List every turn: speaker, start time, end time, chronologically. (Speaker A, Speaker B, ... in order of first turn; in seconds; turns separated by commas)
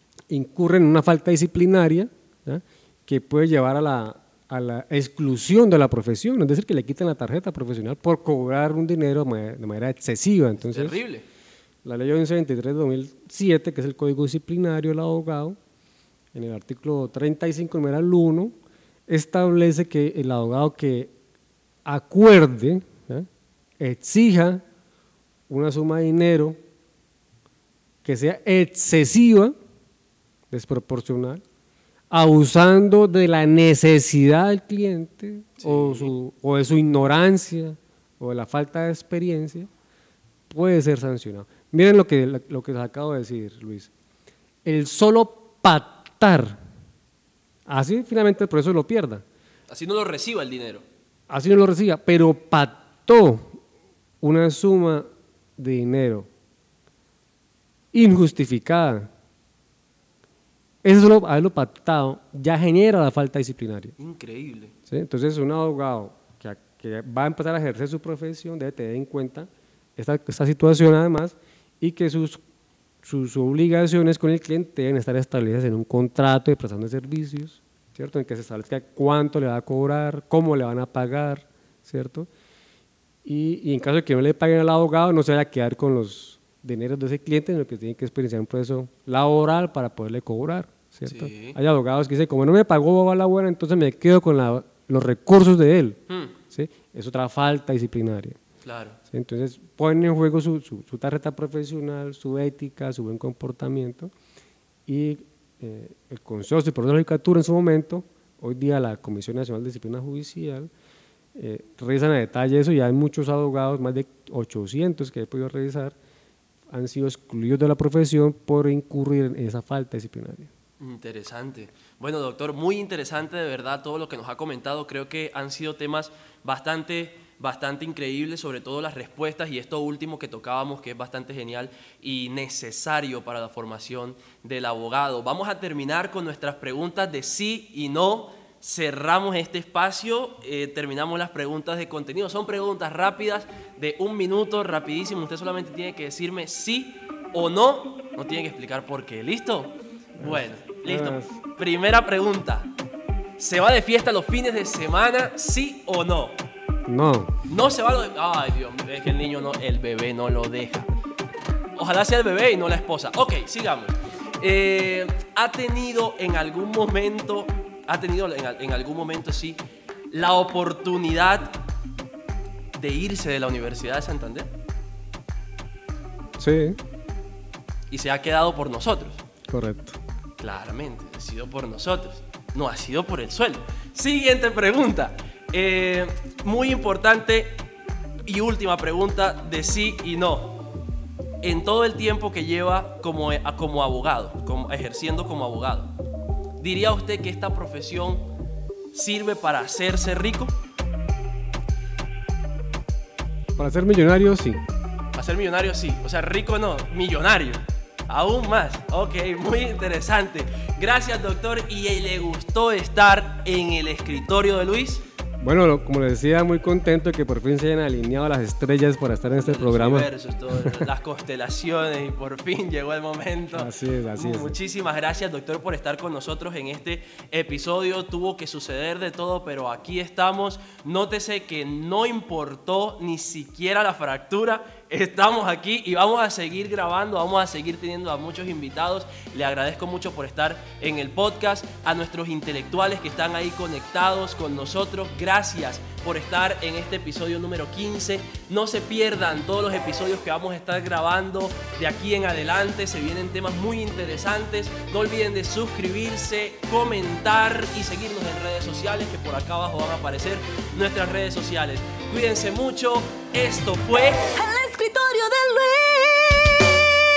Speaker A: 0.3-11.0, Speaker B: 10.6-11.2, Speaker A: 11.8-15.6, Speaker A: 16.3-18.6, Speaker A: 19.1-21.1, Speaker A: 21.9-23.3, Speaker A: 23.8-24.6, Speaker A: 25.5-26.6, Speaker A: 28.0-29.6, Speaker A: 30.5-31.4, Speaker A: 32.1-39.7, Speaker B: 35.6-36.1, Speaker A: 40.5-43.9, Speaker A: 44.6-46.6, Speaker A: 47.7-49.2, Speaker B: 49.7-50.9, Speaker A: 51.3-53.6, Speaker A: 54.2-56.3, Speaker A: 57.9-59.1, Speaker A: 60.8-64.0, Speaker B: 64.0-64.8, Speaker A: 64.9-72.4, Speaker A: 73.0-82.3, Speaker A: 83.2-98.4, Speaker B: 91.0-91.6, Speaker B: 96.1-96.3, Speaker B: 98.6-99.0, Speaker A: 99.1-104.1, Speaker A: 104.9-110.7, Speaker A: 111.3-116.0, Speaker A: 116.7-120.5, Speaker B: 120.8-152.7, Speaker A: 150.2-151.4, Speaker B: 153.4-156.4, Speaker A: 156.9-157.3, Speaker B: 157.5-160.9, Speaker B: 161.8-169.6, Speaker B: 170.1-171.6, Speaker B: 172.8-174.5, Speaker A: 176.4-176.8, Speaker B: 177.9-179.2, Speaker A: 179.5-180.0, Speaker B: 180.4-187.7, Speaker B: 188.2-190.6, Speaker B: 191.4-195.9, Speaker B: 196.6-198.3, Speaker B: 198.9-200.5, Speaker A: 203.6-204.6, Speaker B: 205.2-215.0, Speaker A: 215.4-220.1, Speaker B: 219.4-264.3, Speaker A: 223.5-224.6, Speaker C: 264.2-266.6